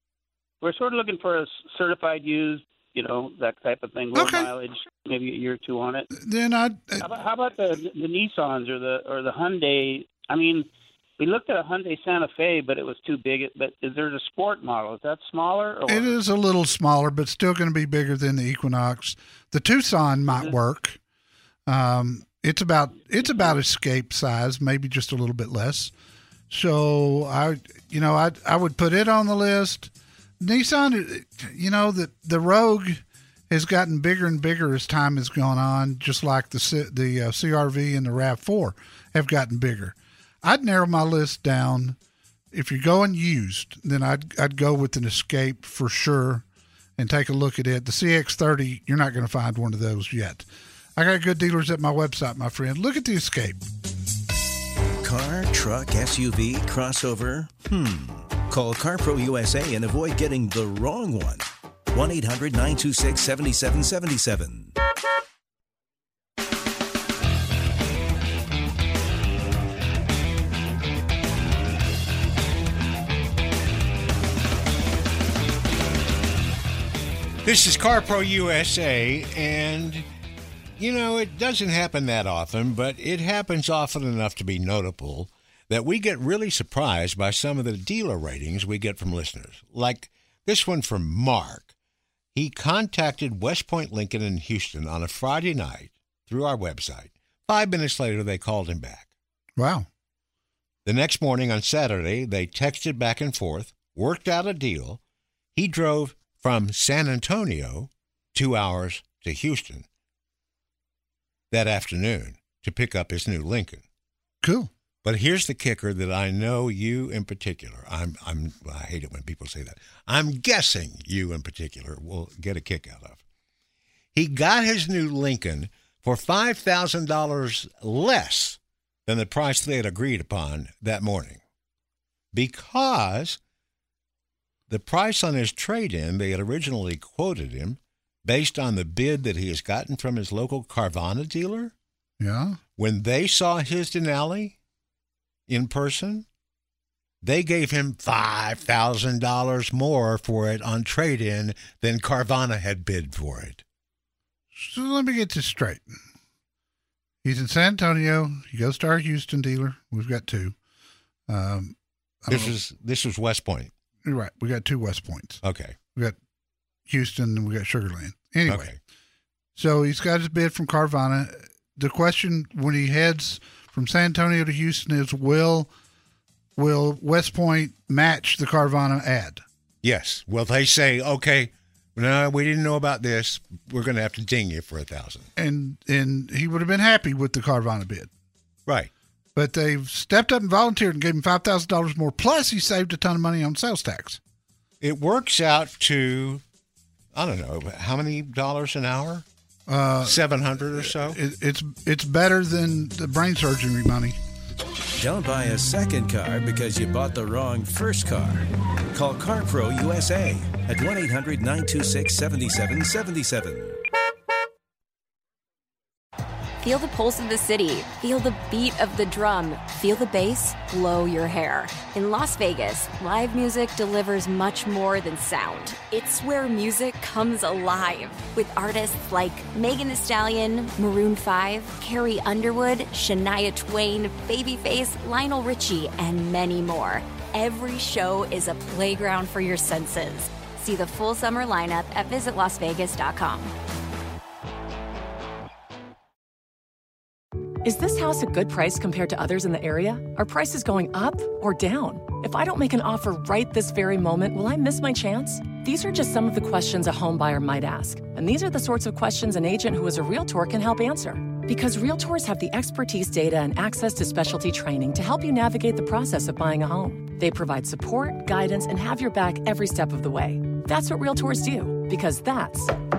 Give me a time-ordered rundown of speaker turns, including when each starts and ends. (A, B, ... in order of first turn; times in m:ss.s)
0:00.6-0:06.1 A
0:04.1-0:04.5 B
0:06.1-0:07.1 B
0:07.0-0:16.2 A
0:15.9-0:21.0 B
0:21.7-0:25.9 B
0:26.5-0:42.0 B
0:42.5-0:46.4 B
0:47.0-0:50.4 B
0:51.0-0:53.6 B
0:55.0-1:04.7 C
1:17.4-1:20.1 D
1:20.8-1:31.7 D
1:32.3-1:39.1 D
1:39.6-1:39.9 B
1:40.8-1:45.0 D
1:45.6-1:49.9 D
1:51.5-1:53.8 D
1:54.4-1:54.7 B
1:55.0-2:03.2 D
2:04.1-2:11.4 D
2:12.3-2:13.4 D
2:14.7-2:21.7 D
2:22.2-2:22.6 B
2:22.8-2:24.6 D
2:25.5-2:26.3 D
2:27.2-2:33.6 D
2:34.6-2:35.9 B
2:37.2-2:40.6 B
2:41.3-2:42.5 B
2:42.3-2:43.7 D
2:44.0-2:45.4 B
2:45.4-2:45.8 D
2:46.9-2:48.7 B
2:48.5-2:48.8 D
2:49.6-2:55.7 B
2:56.6-2:59.4 B
2:59.8-3:05.3 D
3:05.4-3:08.1 B
3:09.4-3:14.2 B
3:14.8-3:16.4 D
3:17.1-3:19.2 D
3:19.7-3:20.2 B
3:20.0-3:21.2 D
3:20.8-3:24.2 B
3:25.0-3:33.8 C
3:36.6-4:03.5 E
4:07.6-4:32.7 F